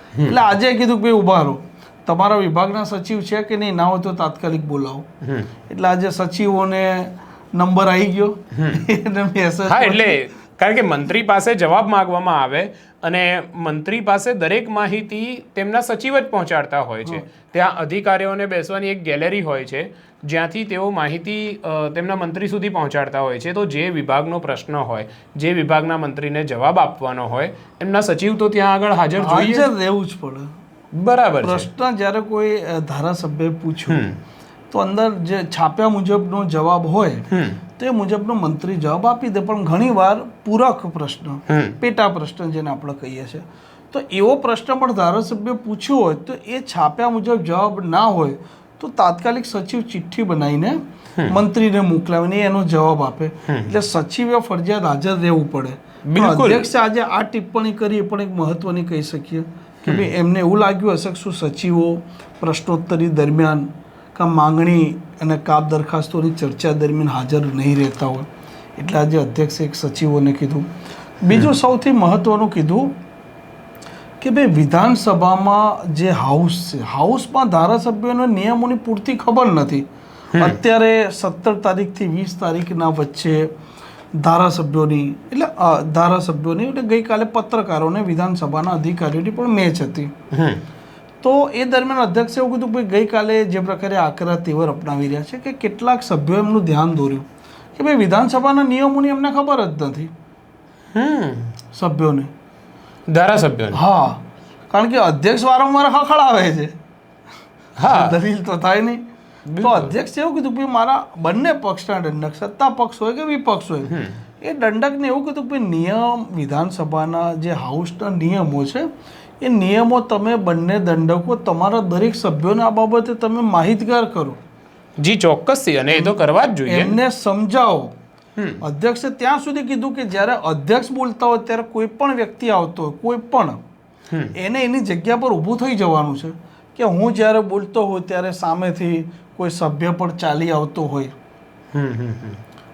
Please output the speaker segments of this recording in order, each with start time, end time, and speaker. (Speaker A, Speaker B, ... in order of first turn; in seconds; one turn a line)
Speaker A: 0.2-5.1
Speaker B: 5.2-5.5
Speaker A: 5.7-10.2
Speaker B: 8.6-8.8
Speaker B: 9.7-29.7
Speaker A: 29.2-30.5
Speaker B: 30.9-31.7
Speaker A: 31.4-34.1
Speaker B: 33.9-34.2
Speaker A: 34.7-70.7
Speaker B: 37.3-37.6
Speaker B: 41.5-41.8
Speaker B: 53.5-53.7
Speaker B: 56.1-56.7
Speaker A: 71.2-72.9
Speaker A: 74.2-79.8
Speaker A: 80.4-83.5
Speaker A: 84.2-90.1
Speaker B: 90.3-90.6
Speaker A: 91.2-100.1
Speaker B: 101.0-101.5
Speaker A: 101.8-102.3
Speaker B: 103.1-103.8
Speaker A: 103.7-106.7
Speaker B: 107.8-108.2
Speaker A: 107.8-109.0
Speaker B: 109.5-109.9
Speaker A: 109.6-118.9
Speaker B: 113.9-114.2
Speaker A: 119.4-124.4
Speaker B: 125.0-126.9
Speaker A: 125.9-127.9
Speaker B: 128.4-128.6
Speaker A: 128.6-133.6
Speaker A: 134.3-141.1
Speaker B: 141.7-142.4